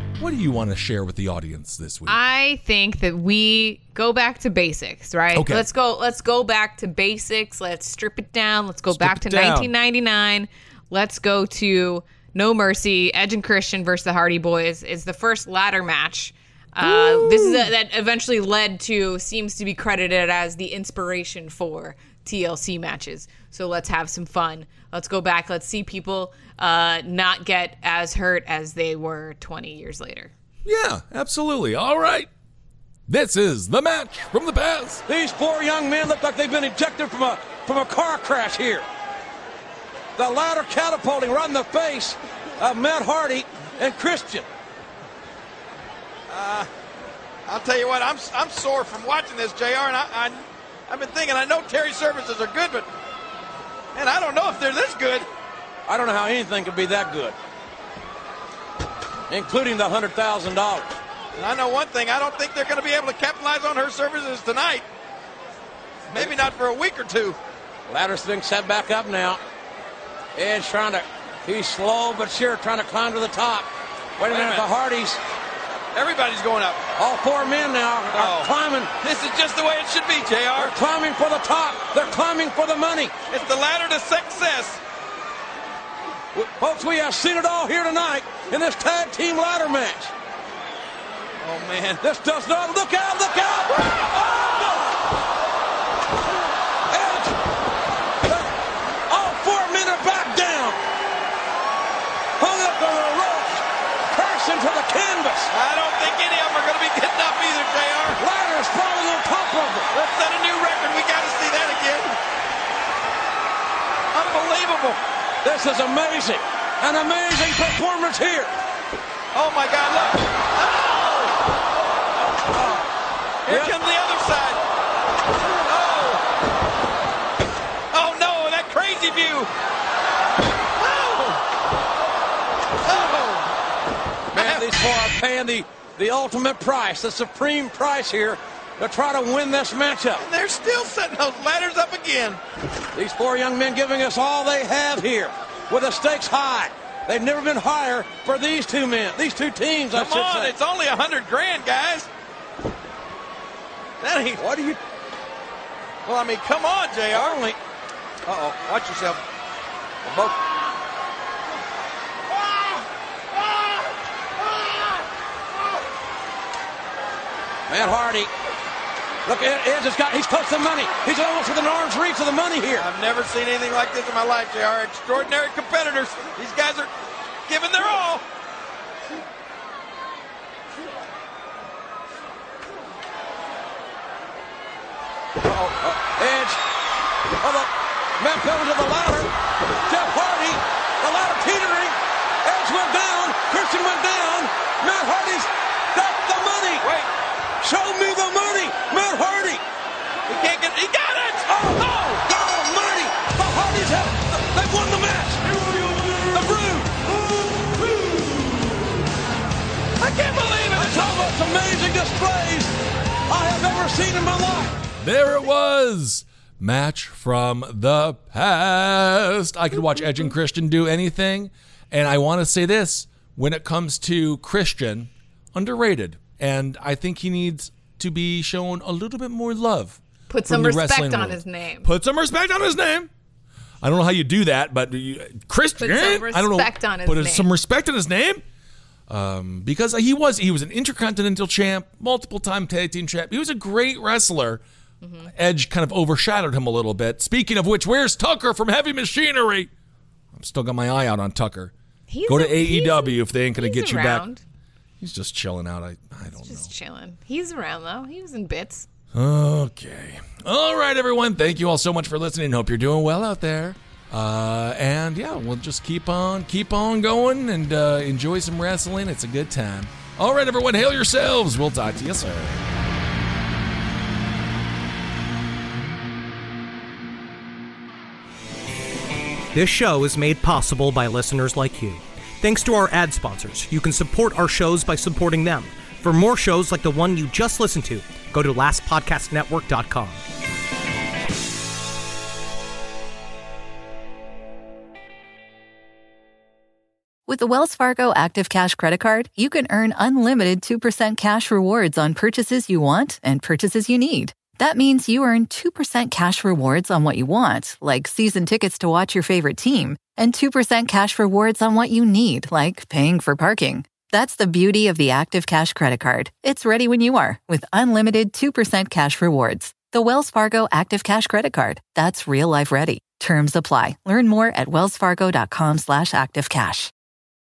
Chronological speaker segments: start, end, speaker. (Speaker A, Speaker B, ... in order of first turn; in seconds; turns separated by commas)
Speaker A: 0.2-2.2, Speaker B: 2.0-30.3, Speaker A: 5.3-5.6, Speaker A: 8.9-9.7, Speaker A: 16.8-17.7, Speaker A: 30.6-32.3, Speaker A: 33.1-35.0, Speaker C: 35.1-38.8, Speaker C: 40.2-44.5, Speaker D: 46.3-46.7, Speaker D: 47.5-52.9, Speaker D: 53.9-55.3, Speaker C: 55.9-57.3, Speaker C: 59.3-60.9, Speaker D: 61.3-64.8, Speaker D: 66.1-67.4, Speaker C: 66.1-66.4, Speaker C: 67.9-69.4, Speaker C: 70.3-75.2, Speaker D: 74.2-74.7, Speaker D: 75.9-76.8, Speaker C: 77.0-78.9, Speaker D: 78.1-78.5, Speaker D: 79.0-80.8, Speaker C: 80.5-83.1, Speaker D: 83.3-84.8, Speaker C: 86.3-90.1, Speaker D: 91.4-92.0, Speaker C: 92.0-94.9, Speaker D: 93.8-94.3, Speaker C: 96.9-97.3, Speaker C: 98.2-98.5, Speaker C: 99.1-100.8, Speaker C: 102.4-105.5, Speaker D: 105.5-108.2, Speaker C: 108.2-109.8, Speaker D: 109.9-112.2, Speaker D: 114.1-115.0, Speaker C: 115.4-118.5, Speaker D: 119.3-121.4, Speaker D: 123.5-124.6, Speaker C: 123.5-123.8, Speaker D: 125.6-126.2, Speaker D: 127.9-129.5, Speaker D: 130.8-131.4, Speaker D: 132.8-133.5, Speaker D: 134.3-134.9, Speaker C: 134.3-140.2, Speaker D: 140.2-142.4, Speaker C: 142.9-150.5, Speaker D: 149.9-152.1, Speaker D: 154.0-154.4, Speaker C: 154.4-154.8, Speaker D: 156.0-157.5, Speaker C: 157.1-157.6, Speaker D: 158.3-159.2, Speaker D: 160.1-160.4, Speaker D: 162.3-162.8, Speaker D: 163.3-163.9, Speaker D: 164.5-165.0, Speaker C: 167.7-168.3, Speaker C: 169.2-172.9, Speaker D: 172.7-176.9, Speaker D: 177.5-178.2, Speaker C: 185.4-186.6, Speaker C: 187.4-189.3, Speaker C: 189.8-196.8, Speaker D: 196.8-197.1, Speaker C: 197.6-199.6, Speaker D: 200.3-202.1, Speaker C: 201.5-207.0, Speaker D: 205.7-206.2, Speaker D: 207.2-208.1, Speaker C: 207.6-208.7, Speaker D: 210.0-211.3, Speaker C: 210.7-212.7, Speaker C: 213.3-214.8, Speaker A: 215.0-233.1, Speaker B: 230.3-231.9, Speaker A: 233.8-238.4, Speaker B: 235.8-237.5, Speaker A: 239.1-244.6, Speaker B: 245.0-245.3, Speaker A: 245.3-249.7, Speaker A: 250.3-251.7, Speaker B: 252.1-254.4, Speaker A: 252.2-254.2, Speaker A: 255.0-256.7, Speaker B: 256.4-258.9, Speaker A: 259.1-272.6, Speaker E: 279.5-290.2, Speaker F: 297.3-326.9